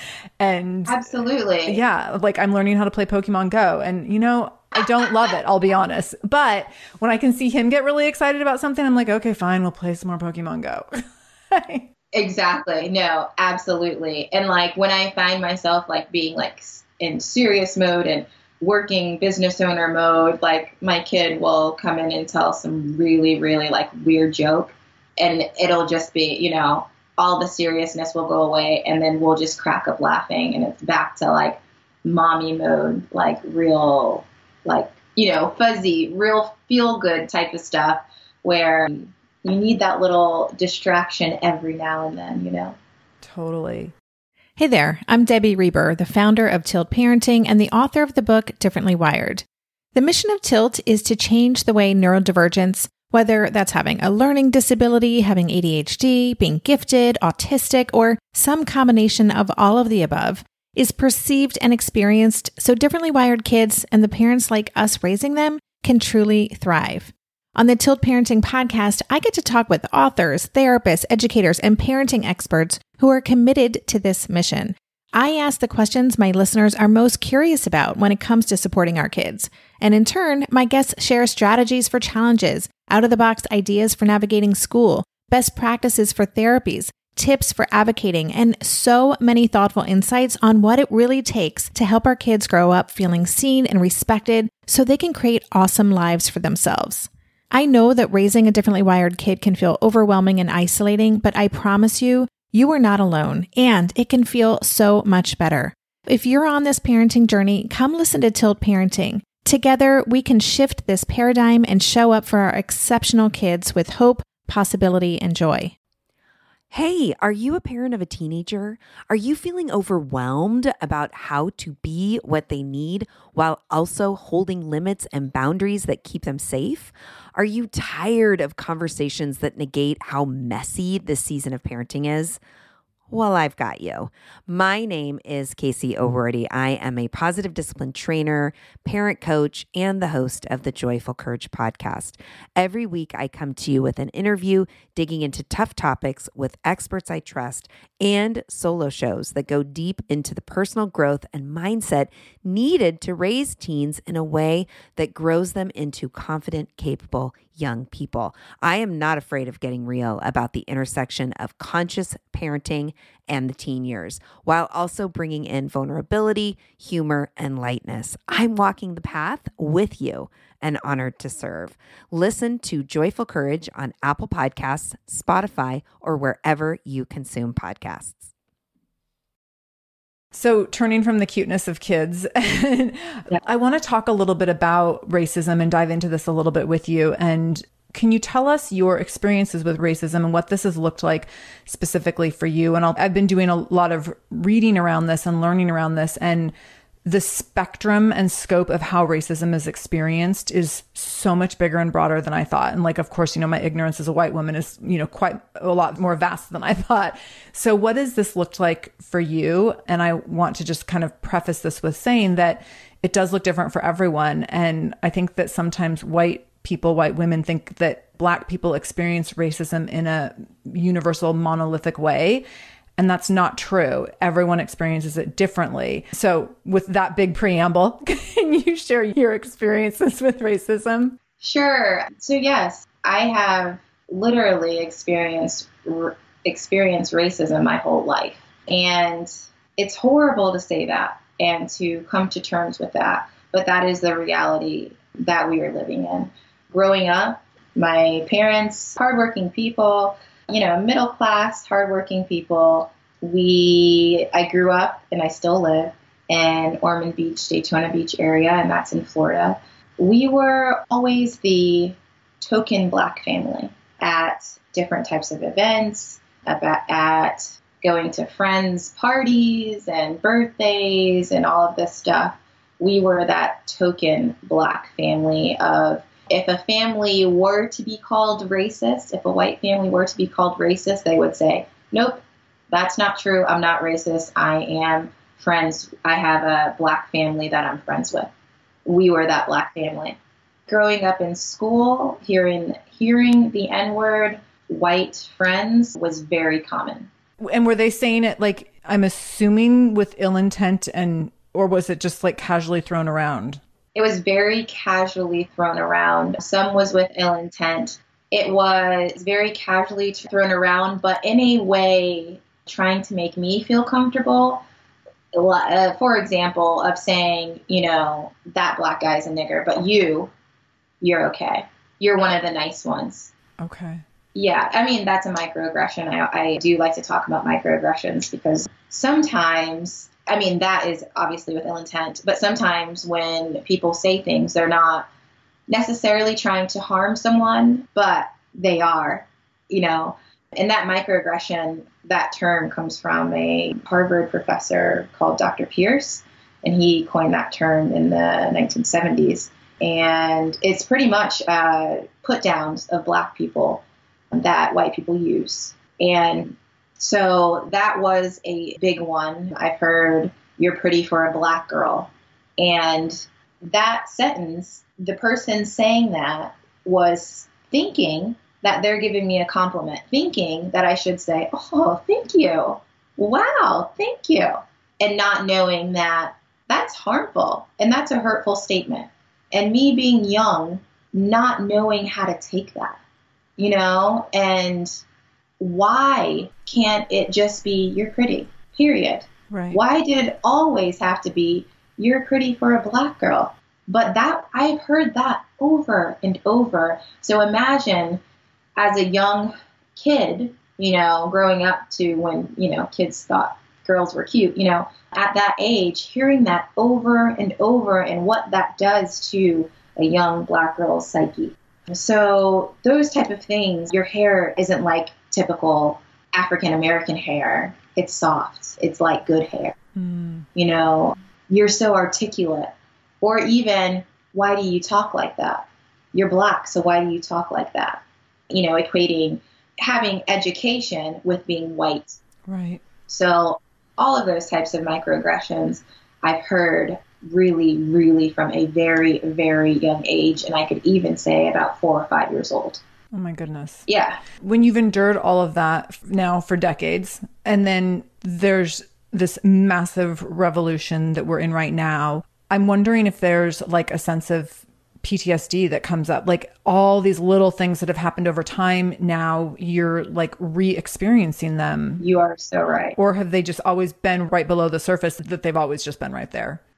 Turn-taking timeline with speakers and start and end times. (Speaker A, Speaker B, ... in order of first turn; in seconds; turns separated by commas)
Speaker A: 0.4-1.0, Speaker B: 0.9-1.8, Speaker A: 1.7-10.9, Speaker A: 11.5-11.9, Speaker B: 12.1-42.8, Speaker A: 43.2-43.9, Speaker C: 44.6-115.7, Speaker D: 116.7-132.4, Speaker D: 133.1-178.3, Speaker A: 180.3-196.5, Speaker A: 197.1-222.4, Speaker A: 223.0-231.2, Speaker B: 231.4-288.3, Speaker B: 288.9-290.2, Speaker B: 290.7-297.1, Speaker A: 297.4-303.6, Speaker B: 303.9-314.6, Speaker B: 315.3-320.3, Speaker B: 321.0-323.3, Speaker A: 323.6-324.0, Speaker B: 324.4-335.1, Speaker B: 335.7-353.8, Speaker B: 354.3-383.0, Speaker B: 383.6-385.0, Speaker B: 385.6-398.2, Speaker A: 389.5-389.8, Speaker B: 398.8-419.8, Speaker A: 420.0-420.5, Speaker B: 420.6-432.2, Speaker A: 432.5-432.8, Speaker B: 433.1-442.8, Speaker A: 443.1-462.0, Speaker B: 443.9-444.2, Speaker B: 462.0-463.0, Speaker A: 463.0-466.6